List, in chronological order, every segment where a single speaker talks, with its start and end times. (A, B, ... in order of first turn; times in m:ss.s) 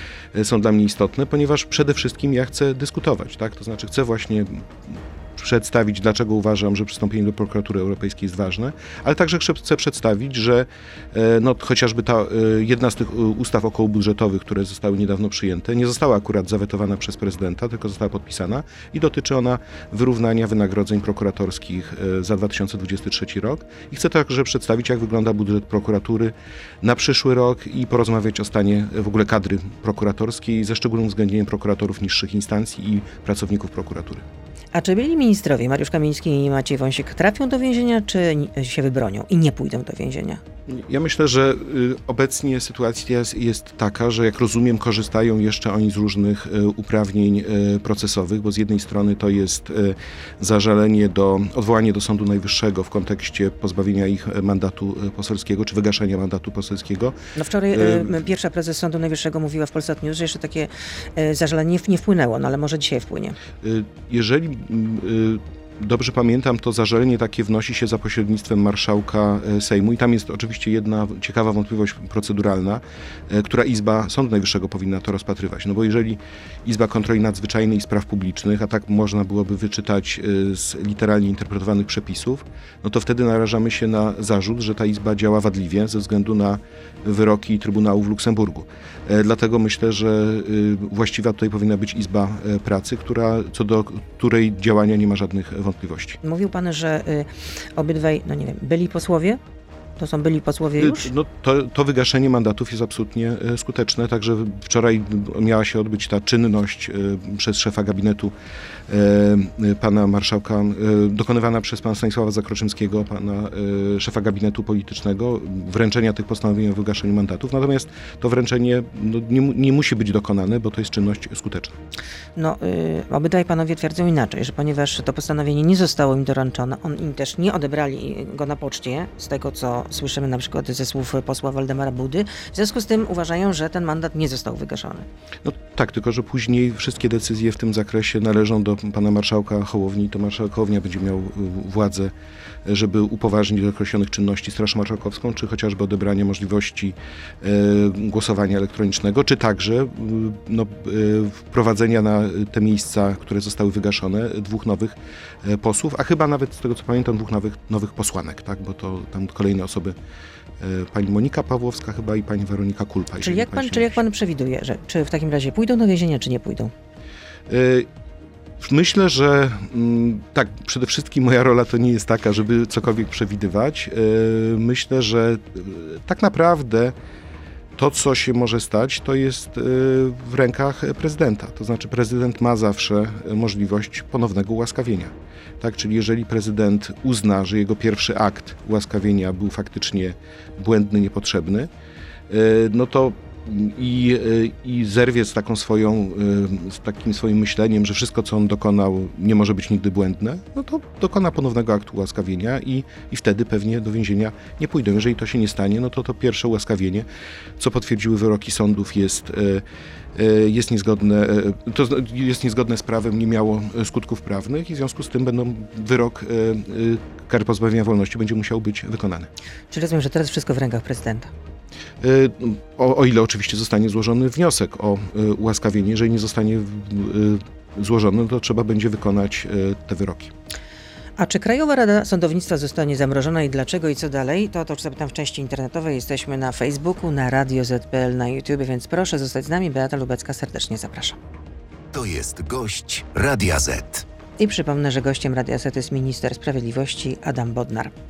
0:00.3-0:34.2 A
0:34.7-0:40.4 B
0:40.7-0:57.2 A
0:57.3-1:03.4 B
0:57.7-0:58.2 A
1:03.6-1:36.2 A
1:36.2-1:39.4 B
1:40.0-1:41.1 B
1:40.8-1:48.3 A
1:48.9-2:01.8 A
2:02.4-2:15.0 B
2:15.4-2:22.1 A
2:22.6-2:39.9 A
2:40.6-2:43.9 A
2:43.2-2:46.7 B
2:47.5-2:47.9 A
2:48.6-2:57.0 A
2:57.8-3:11.7 A
3:12.3-3:27.0 A
3:27.6-3:39.3 A
3:39.7-3:41.3 B
3:42.0-3:50.3 A
3:51.2-4:01.2 B
4:01.9-4:04.0 C
4:04.4-4:07.9 B